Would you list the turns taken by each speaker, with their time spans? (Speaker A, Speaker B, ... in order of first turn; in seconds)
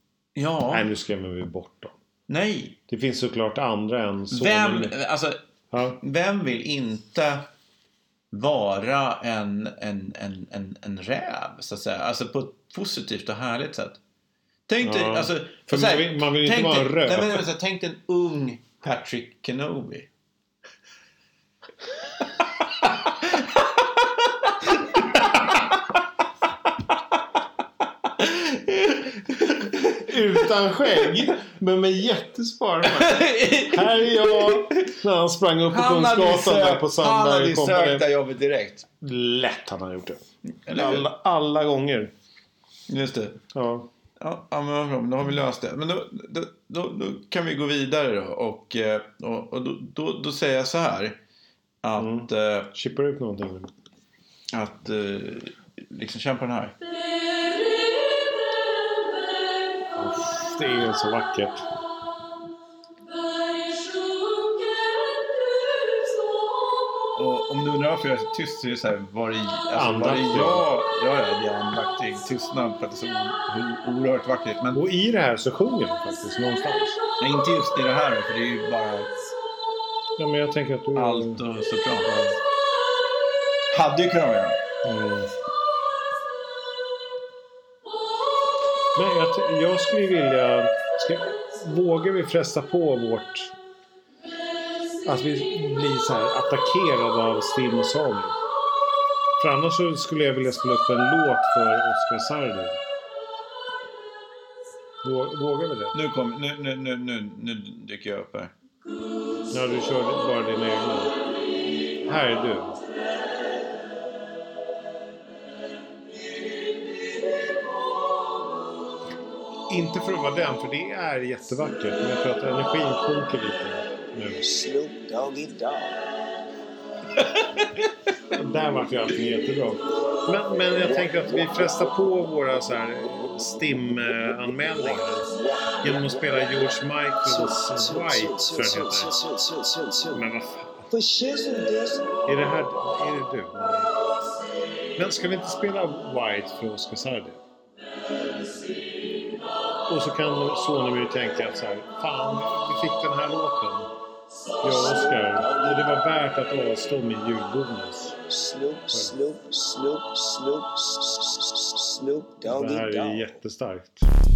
Speaker A: 0.3-0.8, 2.3-2.8, 4.3-5.4, 6.0-7.5, 8.3-14.0, 14.7-20.1, 23.2-23.5, 24.4-25.4, 28.1-30.4, 32.8-34.9, 35.7-38.9, 40.6-41.1, 42.9-43.4, 44.2-51.2, 51.8-52.7, 54.5-56.7, 67.2-74.8, 77.2-79.1, 81.0-82.1, 83.7-84.6, 105.9-108.5
Speaker B: 0.7-1.9, 2.9-4.9, 5.7-6.0, 14.8-17.4, 30.0-38.0, 39.0-42.1, 43.5-43.9, 52.0-53.7, 59.9-61.6, 69.7-70.6, 74.7-77.0, 80.2-81.4, 82.0-82.4, 84.8-85.3, 88.9-93.5, 95.0-98.3, 99.4-102.8, 105.0-106.0, 109.5-111.1, 112.0-112.8, 119.7-124.4, 128.3-135.3, 135.8-139.2, 140.1-140.9, 142.2-143.9, 144.9-147.4, 149.9-153.9, 154.6-158.2, 162.4-164.1
Speaker C: 124.3-126.0, 130.8-131.8, 134.8-136.7, 137.2-140.2, 140.9-142.2, 154.6-155.9, 158.3-163.3